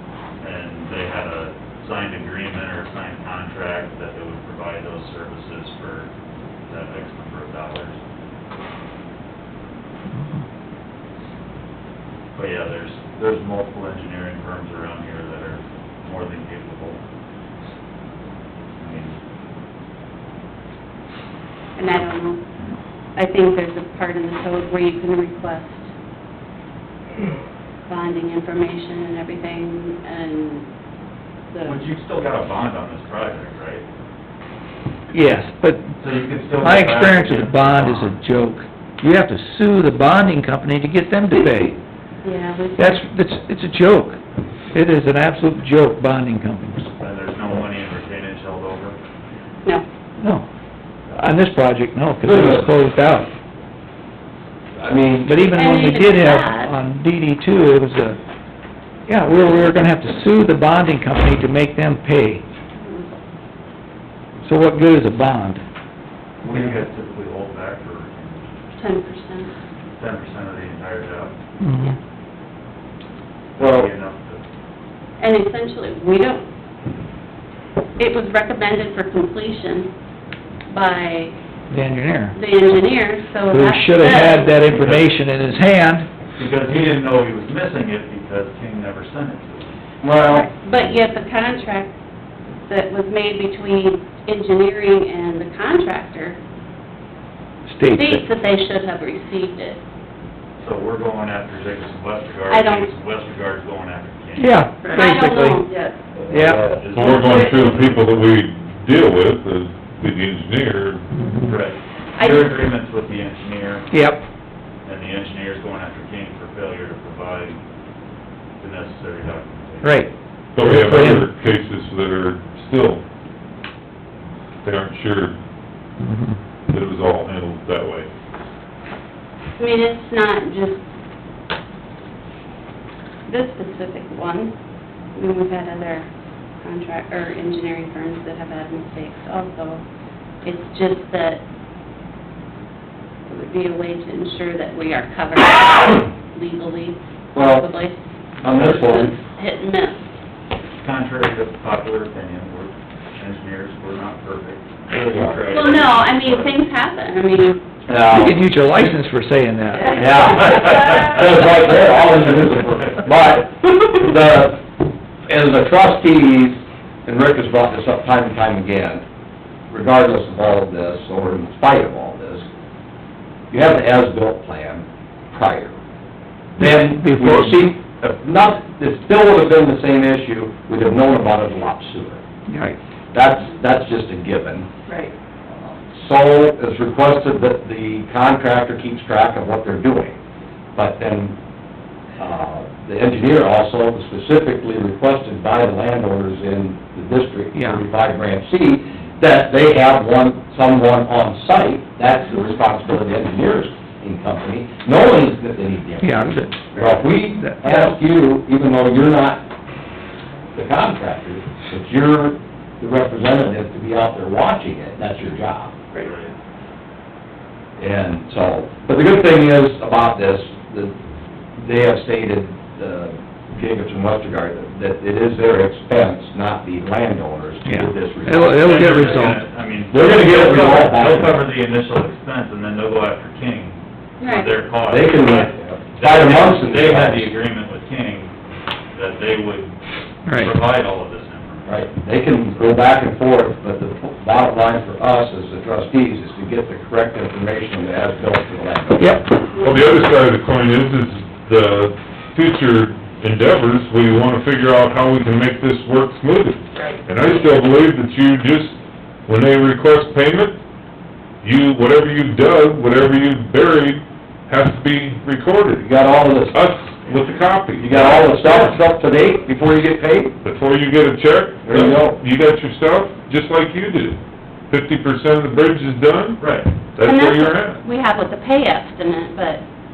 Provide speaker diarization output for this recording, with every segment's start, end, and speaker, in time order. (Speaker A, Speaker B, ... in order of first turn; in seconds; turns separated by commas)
Speaker A: 0.4-6.1, Speaker A: 6.7-8.0, Speaker A: 12.3-17.0, Speaker A: 18.8-19.2, Speaker B: 21.8-22.5, Speaker B: 23.2-25.9, Speaker B: 27.9-30.7, Speaker B: 31.5-31.8, Speaker A: 31.7-33.9, Speaker C: 35.1-36.0, Speaker A: 36.0-38.2, Speaker C: 36.6-41.8, Speaker B: 42.2-43.0, Speaker C: 42.8-44.2, Speaker C: 44.7-46.9, Speaker A: 47.0-49.0, Speaker C: 50.2-50.5, Speaker C: 51.1-53.3, Speaker D: 52.2-52.7, Speaker D: 54.8-55.5, Speaker C: 55.2-58.2, Speaker B: 55.5-56.7, Speaker C: 59.1-62.4, Speaker B: 62.8-63.1, Speaker C: 64.4-65.6, Speaker A: 66.4-68.5, Speaker B: 68.8-69.5, Speaker A: 70.0-71.3, Speaker C: 71.6-72.0, Speaker A: 73.6-74.4, Speaker D: 73.6-73.9, Speaker B: 75.2-76.5, Speaker B: 78.0-79.9, Speaker B: 80.7-81.4, Speaker C: 81.7-82.4, Speaker B: 82.3-84.6, Speaker C: 83.5-86.1, Speaker A: 84.7-85.1, Speaker A: 86.4-89.8, Speaker D: 90.0-90.5, Speaker B: 90.3-91.9, Speaker B: 92.7-96.4, Speaker C: 97.7-98.3, Speaker B: 97.9-99.8, Speaker A: 100.6-104.7, Speaker B: 102.5-102.9, Speaker C: 104.4-105.6, Speaker B: 104.8-106.0, Speaker A: 106.2-108.1, Speaker C: 106.3-106.8, Speaker E: 106.9-111.0, Speaker B: 107.1-107.5, Speaker C: 111.2-111.6, Speaker A: 111.5-113.9, Speaker B: 112.2-112.5, Speaker C: 113.9-114.2, Speaker A: 114.8-117.6, Speaker A: 118.6-120.0, Speaker C: 119.8-121.3, Speaker E: 120.5-123.0, Speaker E: 124.6-125.4, Speaker C: 126.0-126.4, Speaker E: 126.7-128.1, Speaker B: 129.6-130.8, Speaker B: 133.3-134.5, Speaker B: 135.2-136.1, Speaker B: 136.6-139.8, Speaker B: 140.4-141.4, Speaker B: 143.3-150.0, Speaker D: 147.3-147.7, Speaker D: 148.4-149.1, Speaker A: 150.8-156.6, Speaker D: 154.9-155.4, Speaker B: 155.5-157.6, Speaker D: 157.9-158.4, Speaker C: 158.1-160.0, Speaker B: 159.9-160.5, Speaker D: 159.9-164.7, Speaker D: 165.3-169.0, Speaker D: 169.7-172.4, Speaker D: 173.5-175.8, Speaker D: 176.6-182.2, Speaker C: 176.6-177.7, Speaker C: 182.5-182.8, Speaker D: 183.1-184.7, Speaker D: 185.5-190.2, Speaker D: 190.8-191.4, Speaker D: 192.2-209.4, Speaker C: 197.5-197.8, Speaker C: 206.0-207.9, Speaker D: 210.6-215.7, Speaker A: 216.0-216.3, Speaker D: 217.8-220.9, Speaker D: 221.6-229.3, Speaker C: 227.7-229.4, Speaker A: 228.6-238.3, Speaker D: 229.9-231.4, Speaker B: 234.2-234.5, Speaker D: 234.9-237.3, Speaker A: 238.9-239.8, Speaker C: 240.3-240.5, Speaker A: 240.3-241.9, Speaker D: 241.7-249.3, Speaker C: 249.0-249.3, Speaker E: 249.6-260.6, Speaker E: 261.4-265.9, Speaker D: 265.8-266.6, Speaker E: 266.5-268.8, Speaker D: 267.8-270.4, Speaker E: 270.4-274.2, Speaker D: 271.6-272.2, Speaker E: 274.7-277.8, Speaker A: 276.4-276.7, Speaker B: 277.0-279.6